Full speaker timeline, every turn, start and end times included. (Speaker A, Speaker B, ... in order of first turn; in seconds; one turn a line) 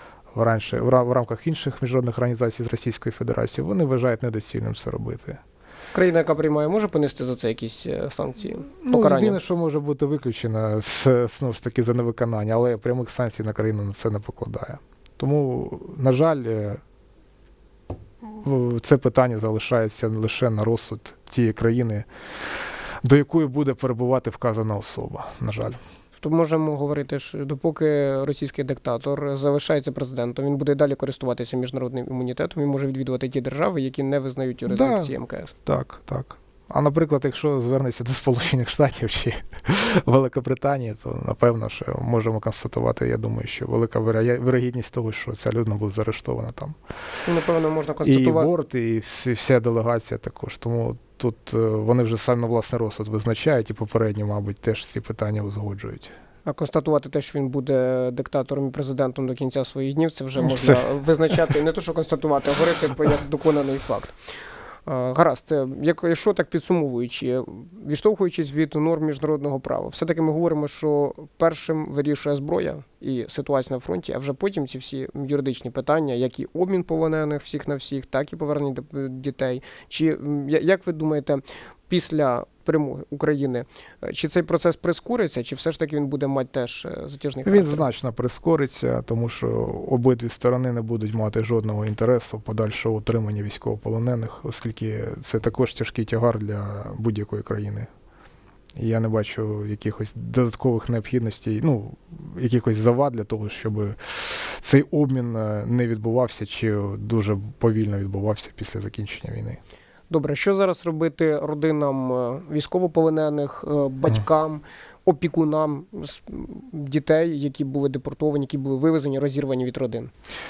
Speaker A: 0.3-5.4
Speaker B: 5.9-9.4
Speaker A: 8.8-16.8
Speaker A: 18.2-22.1
Speaker A: 23.0-25.8
Speaker B: 26.2-35.5
Speaker A: 34.7-35.1
Speaker A: 35.6-46.8
Speaker B: 47.2-48.5
Speaker A: 48.0-56.1
Speaker B: 56.5-64.1
Speaker A: 60.4-60.8
Speaker B: 64.8-87.9
Speaker A: 87.4-97.9
Speaker A: 98.8-109.6
Speaker B: 110.1-120.1